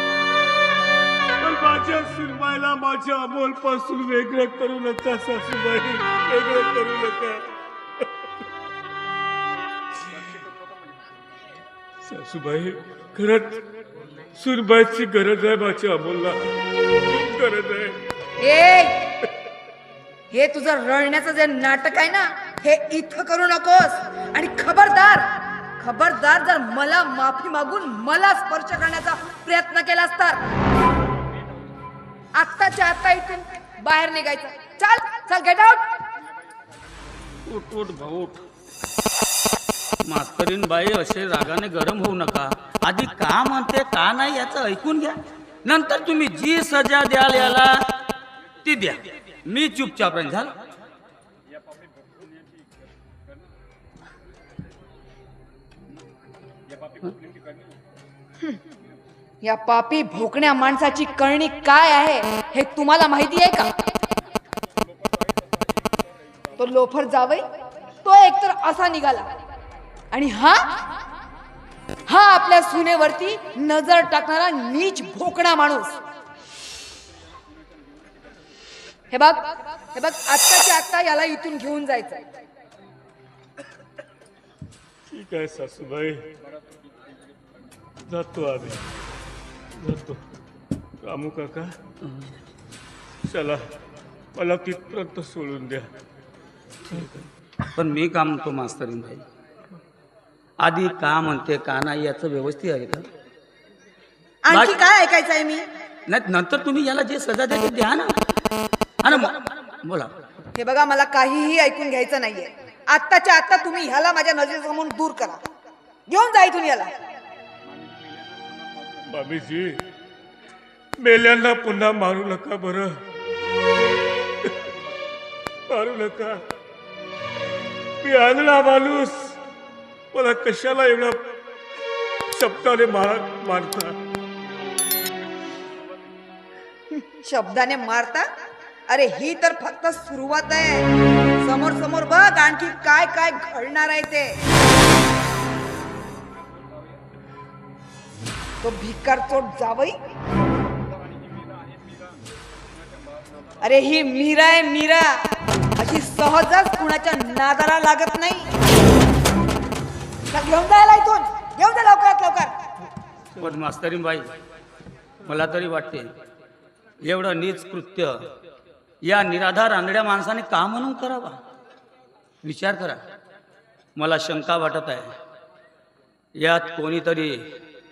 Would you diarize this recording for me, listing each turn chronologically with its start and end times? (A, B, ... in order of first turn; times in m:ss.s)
0:01.4-0:07.5 A
0:12.0-0:13.6 A
0:14.4-0:18.0 A
0:18.4-0:19.1 B
0:20.3-0:30.5 B
0:32.4-0:35.9 B
0:37.5-0:38.4 C
0:40.0-0:47.9 C
0:48.6-0:50.5 C
0:59.4-1:03.7 B
1:06.6-1:07.5 B
1:08.0-1:09.3 B
1:10.1-1:10.8 B
1:12.1-1:16.0 B
1:19.1-1:22.2 B
1:25.1-1:26.3 A
1:28.1-1:28.9 A
1:29.8-1:30.2 A
1:31.0-1:31.8 A
1:32.1-1:32.3 C
1:33.2-1:33.7 A
1:34.4-1:35.9 A
1:36.9-1:39.3 C
1:40.6-1:43.1 C
1:44.4-1:45.7 B
1:44.5-1:44.8 C
1:46.1-1:48.1 C
1:49.0-1:50.1 C
1:50.6-1:55.4 B
1:56.1-1:56.9 B
1:59.0-1:59.8 A
2:01.0-2:03.0 A
2:05.7-2:06.4 A
2:08.0-2:09.4 A
2:10.1-2:11.2 A
2:12.3-2:14.0 A
2:17.0-2:18.3 B
2:18.9-2:20.9 B
2:21.4-2:24.4 B
2:28.6-2:30.0 B
2:33.6-2:38.5 B
2:40.3-2:42.6 B
2:43.4-2:44.3 C
2:45.2-2:46.1 C
2:47.0-2:48.3 C
2:49.0-2:51.4 C
2:52.4-2:53.0 C
2:54.0-2:55.2 C
2:56.4-2:57.5 C